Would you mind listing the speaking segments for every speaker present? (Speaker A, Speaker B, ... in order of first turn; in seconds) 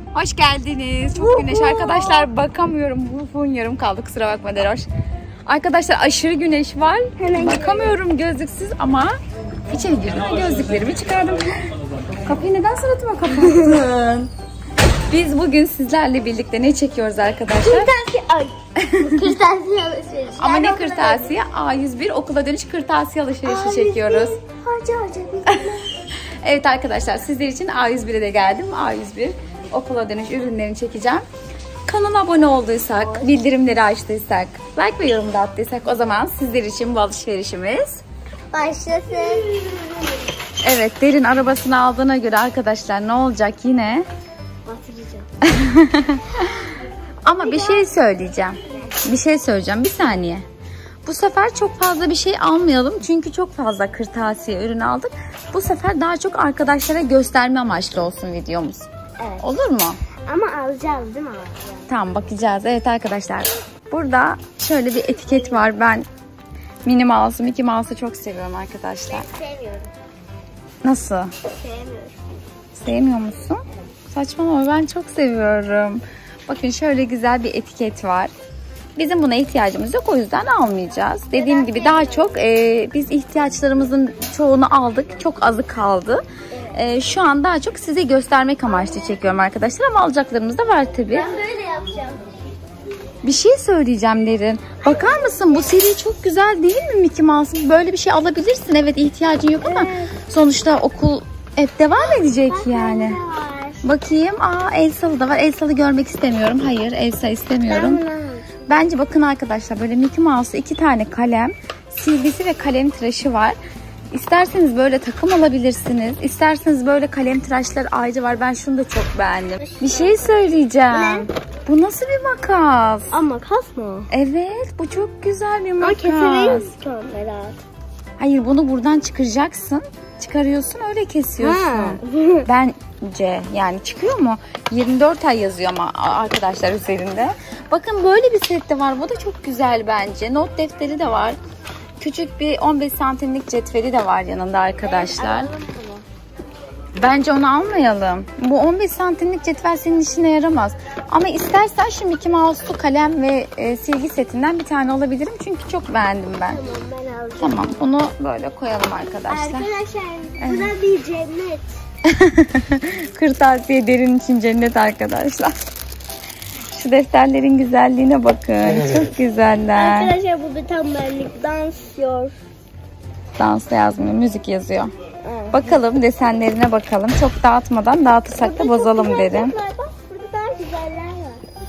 Speaker A: 0.1-4.9, 5.5-9.1, 9.7-11.7, 12.2-14.0, 15.1-17.9, 18.8-19.2, 20.4-24.4, 26.4-31.2, 31.9-38.0, 40.6-44.0, 45.4-46.7, 47.2-50.4, 51.0-58.9, 59.4-60.0, 61.9-66.0, 66.8-69.3, 70.8-71.3, 72.7-78.3, 79.0-91.3, 93.2-103.2, 103.8-108.0, 108.7-113.5, 114.1-123.2, 124.1-126.7, 128.2-141.4, 142.0-145.5, 147.0-156.6, 157.4-159.7, 160.4-160.7, 162.1-165.5, 166.7-170.1, 173.4-174.9, 175.5-179.5
Speaker B: 1.1-2.3, 7.2-8.0, 13.3-14.1, 17.6-21.4, 23.4-25.9, 33.0-33.4, 38.5-40.2, 44.6-45.3, 47.4-47.9, 59.2-59.5, 60.2-61.9, 65.0-65.7, 69.1-69.9, 71.5-72.2, 81.3-82.4, 86.5-86.8, 88.8-89.1, 91.1-92.3, 94.8-95.7, 99.6-100.1, 102.1-103.8, 107.7-108.6, 119.6-120.2, 120.9-121.3, 123.1-124.1, 125.8-127.6, 131.4-132.4, 144.8-146.0, 156.4-157.9, 159.3-161.7, 169.7-172.3, 175.2-175.8, 178.4-181.4